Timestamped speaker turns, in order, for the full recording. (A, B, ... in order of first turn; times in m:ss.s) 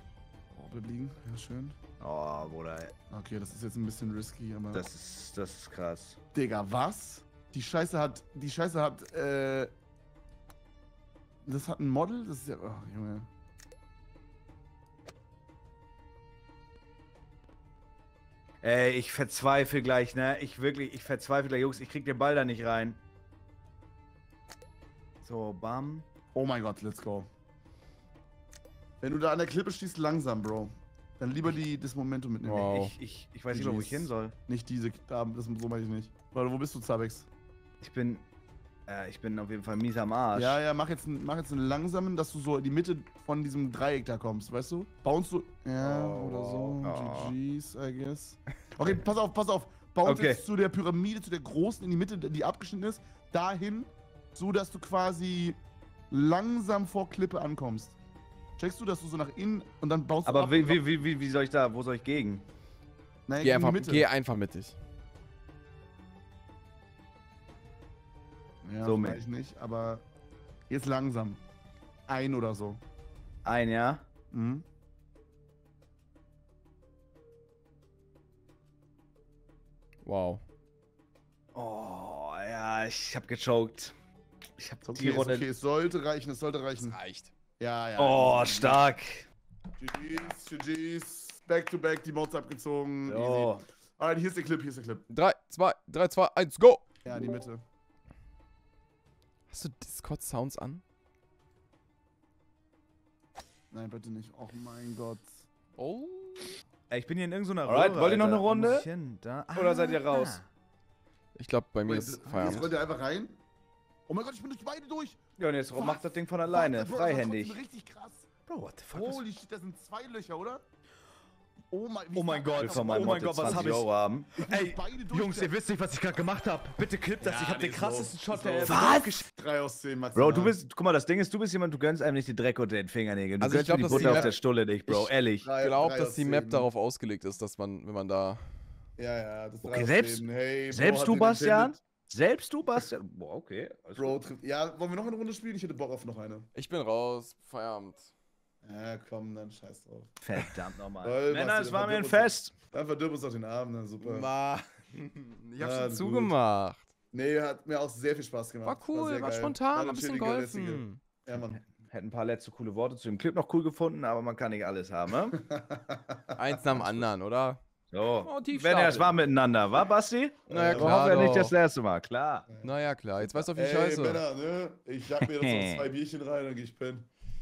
0:00.6-0:01.8 A
0:02.0-0:02.9 B
0:03.1-0:04.9 A
0:04.7-0:06.2 B
0:06.3-0:09.7 A
0:11.4-0:13.3 A
0:18.6-0:23.0 B
0:25.2-0:26.0 B
0:26.3-0:27.3 A
0:29.0-0:32.7 A
0:32.4-0:33.0 C
0:32.7-0:34.3 B
0:33.5-0:37.3 A
0:37.8-0:38.2 B
0:38.9-0:40.6 B
0:40.3-0:55.6 A
0:45.8-0:46.8 C
0:46.8-0:47.4 B
0:50.0-0:50.4 B
0:56.1-0:58.0 A
0:58.6-1:00.8 A
1:00.3-1:02.4 B
1:03.3-1:04.1 A
1:03.4-1:04.8 C
1:08.7-1:10.0 A
1:08.8-1:09.2 B
1:10.7-1:11.4 A
1:12.1-1:12.8 A
1:13.4-1:14.0 B
1:14.3-1:14.6 A
1:20.0-1:20.4 C
1:21.6-1:23.9 B
1:24.6-1:25.5 B
1:24.9-1:27.0 A
1:26.8-1:27.3 C
1:27.6-1:28.8 A
1:28.0-1:29.3 B
1:29.8-1:35.0 A
1:33.1-1:33.6 B
1:35.1-1:36.8 C
1:37.0-1:37.6 A
1:39.5-1:40.8 C
1:43.7-1:45.4 A
1:45.8-1:46.5 C
1:46.9-1:50.4 B
1:47.7-1:48.9 A
1:49.6-1:50.4 A
1:51.4-1:52.7 C
1:51.8-1:53.4 A
1:54.1-1:55.2 A
1:55.4-1:57.6 B
1:55.7-1:58.3 A
1:58.5-1:59.2 B
1:58.9-2:00.6 A
2:01.7-2:05.5 A
2:02.1-2:09.2 B
2:02.6-2:03.8 C
2:07.2-2:10.6 A
2:08.6-2:09.1 C
2:10.1-2:15.4 B
2:13.4-2:14.3 C
2:13.9-2:14.3 A
2:14.9-2:18.4 C
2:15.4-2:16.7 A
2:19.0-2:21.8 A
2:19.6-2:24.2 B
2:24.0-2:26.5 A
2:26.6-2:28.1 C
2:28.6-2:30.1 A
2:30.2-2:32.5 B
2:31.0-2:34.3 A
2:34.0-2:36.9 C
2:35.6-2:36.3 A
2:37.1-2:41.6 A
2:38.7-2:41.0 C
2:41.8-2:45.4 B
2:45.3-2:47.0 A
2:46.4-2:47.6 C
2:47.9-2:52.5 B
2:48.2-2:49.1 C
2:50.5-2:51.0 A
2:50.5-2:51.6 C
2:52.5-2:57.1 A
2:52.6-2:54.2 C
2:55.2-2:55.9 B